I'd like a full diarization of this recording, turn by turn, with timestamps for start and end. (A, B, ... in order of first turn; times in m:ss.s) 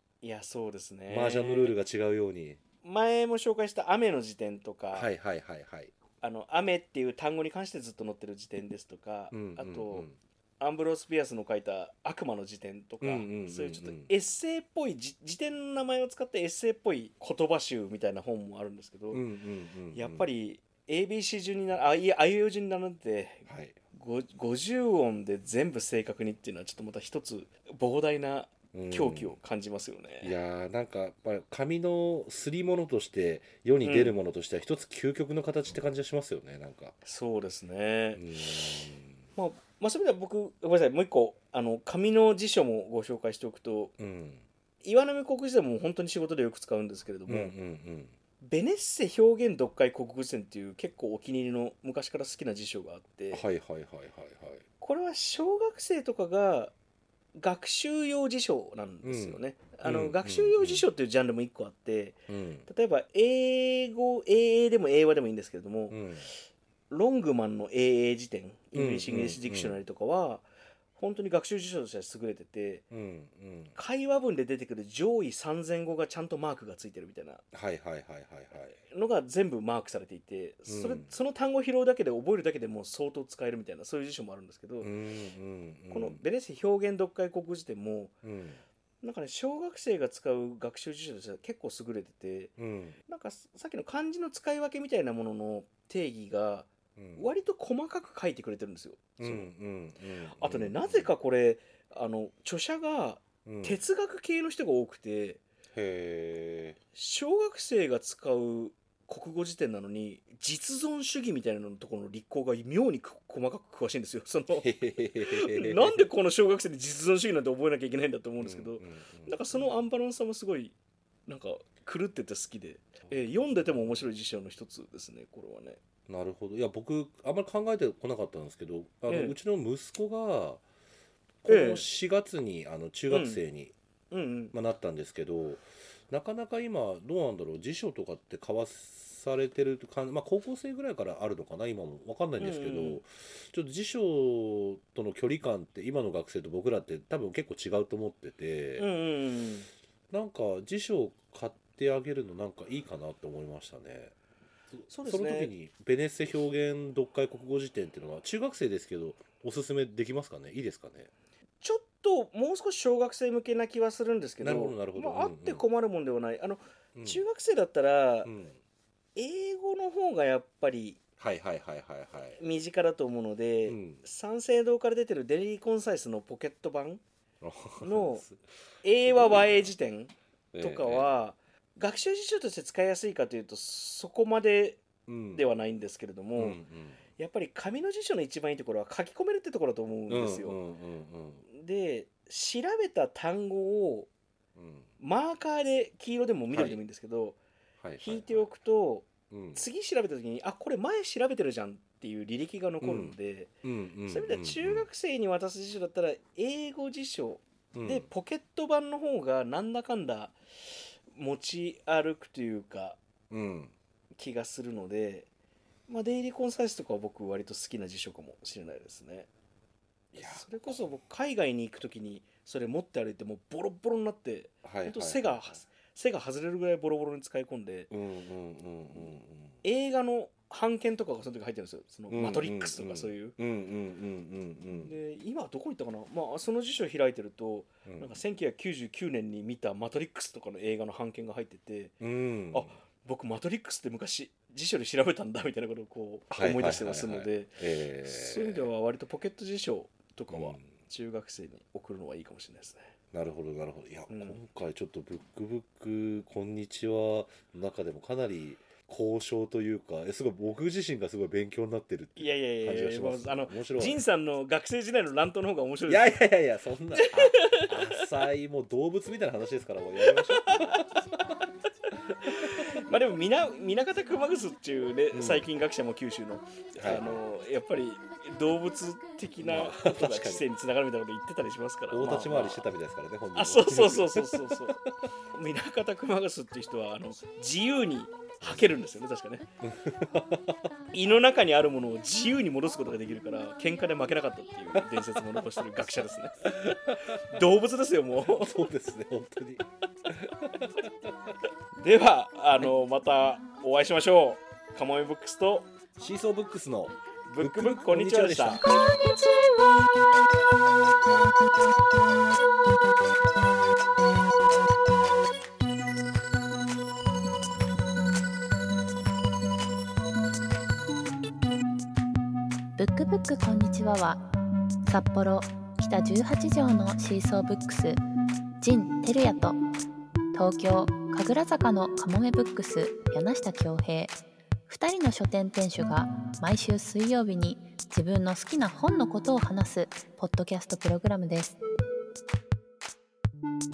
0:00.2-0:01.7 A
0:01.1-0:02.6 B
0:02.8-0:05.1 A
0:04.9-0:05.9 B
0:06.2-0:10.1 A
0:09.3-0:10.2 B
0:10.6-0:19.2 A
0:13.0-0:14.1 B
0:19.1-0:20.3 B
0:19.9-0:30.3 A
0:23.5-0:23.8 B
0:28.7-0:29.4 B
0:30.2-0:37.0 B
0:33.8-0:34.2 A
0:37.0-0:38.4 A
0:38.1-0:39.2 B
0:39.4-0:43.9 A
0:44.0-0:44.4 B
0:44.8-0:47.5 A
0:47.3-0:48.2 B
0:48.4-0:53.4 A
0:53.3-0:54.6 B
0:54.8-0:56.7 A
0:57.4-1:06.0 A
0:59.0-1:00.9 B
1:02.3-1:02.7 B
1:05.9-1:06.3 B
1:06.9-1:12.8 A
1:08.7-1:09.8 B
1:12.9-1:13.8 B
1:13.8-1:17.4 A
1:17.5-1:18.8 B
1:18.9-1:24.9 A
1:20.7-1:21.1 B
1:24.8-1:26.2 B
1:25.9-1:28.2 A
1:28.2-1:28.6 B
1:29.0-1:32.6 A
1:32.6-1:33.0 B
1:33.1-1:39.5 A
1:37.0-1:37.3 B
1:39.2-1:41.1 B
1:40.4-1:45.4 A
1:43.4-1:43.8 B
1:45.7-1:46.8 B
1:46.9-2:00.7 A
1:54.6-1:56.0 B
1:58.4-1:59.7 B
2:01.3-2:05.8 A
2:03.1-2:04.0 B
2:06.1-2:10.6 B
2:09.1-2:09.4 A
2:11.4-2:13.7 B
2:11.5-2:11.9 A
2:13.1-2:13.4 A
2:14.1-2:14.5 A
2:14.5-2:28.9 B
2:22.4-2:23.0 A
2:28.8-2:29.7 A
2:30.1-2:34.2 B
2:34.7-2:41.1 B
2:34.9-2:35.5 A
2:41.6-2:48.3 A
2:44.4-2:45.6 B
2:47.0-2:47.2 B
2:48.2-2:48.6 B
2:49.2-2:51.0 A
2:51.2-2:52.4 B
2:52.4-2:57.0 A
2:53.7-2:54.0 B
2:57.4-2:58.4 B
2:57.8-2:58.2 A
2:58.8-3:06.6 A
2:59.0-2:59.7 B
3:00.5-3:01.1 B
3:05.1-3:05.4 B
3:06.4-3:07.0 B
3:07.2-3:10.6 A
3:10.1-3:11.5 B
3:11.5-3:14.1 A
3:14.6-3:14.9 B
3:15.0-3:17.4 A
3:16.5-3:16.8 B
3:17.8-3:18.5 B
3:18.0-3:23.5 A
3:19.3-3:19.7 B
3:22.8-3:24.9 B
3:24.1-3:30.4 A
3:27.7-3:28.1 B
3:31.1-3:33.0 A
3:33.3-3:33.7 B
3:34.2-3:35.3 A
3:35.9-3:39.3 A
3:40.1-3:40.9 B
3:40.2-3:47.9 A
3:44.6-3:45.6 B
3:47.9-3:49.6 B
3:49.6-3:53.4 A
3:52.1-3:55.0 B
3:54.8-4:02.0 A
3:57.8-3:58.2 B
4:02.0-4:02.8 B
4:02.5-4:12.9 A
4:06.3-4:08.7 B
4:10.3-4:10.7 B
4:13.1-4:24.0 B
4:14.1-4:14.4 A
4:22.2-4:26.2 A
4:25.9-4:31.2 B
4:27.0-4:27.7 A
4:30.0-4:30.8 A
4:31.9-4:32.5 B
4:32.2-4:42.7 A
4:35.1-4:35.5 B
4:36.8-4:37.2 B
4:39.4-4:40.4 B
4:41.9-4:44.8 B
4:43.4-4:44.8 A
4:45.3-4:49.5 A
4:48.4-4:48.7 B
4:49.6-4:50.6 B
4:50.9-4:56.5 A
4:54.8-4:55.4 B
4:56.5-4:57.4 B
4:57.1-4:58.5 A
4:58.2-5:01.3 B
5:01.8-5:05.7 A
5:06.0-5:08.7 B
5:07.3-5:08.6 A
5:22.8-5:24.3 C
5:24.9-5:28.0 C
5:28.6-5:29.6 C
5:30.3-5:34.2 C
5:34.7-5:41.6 C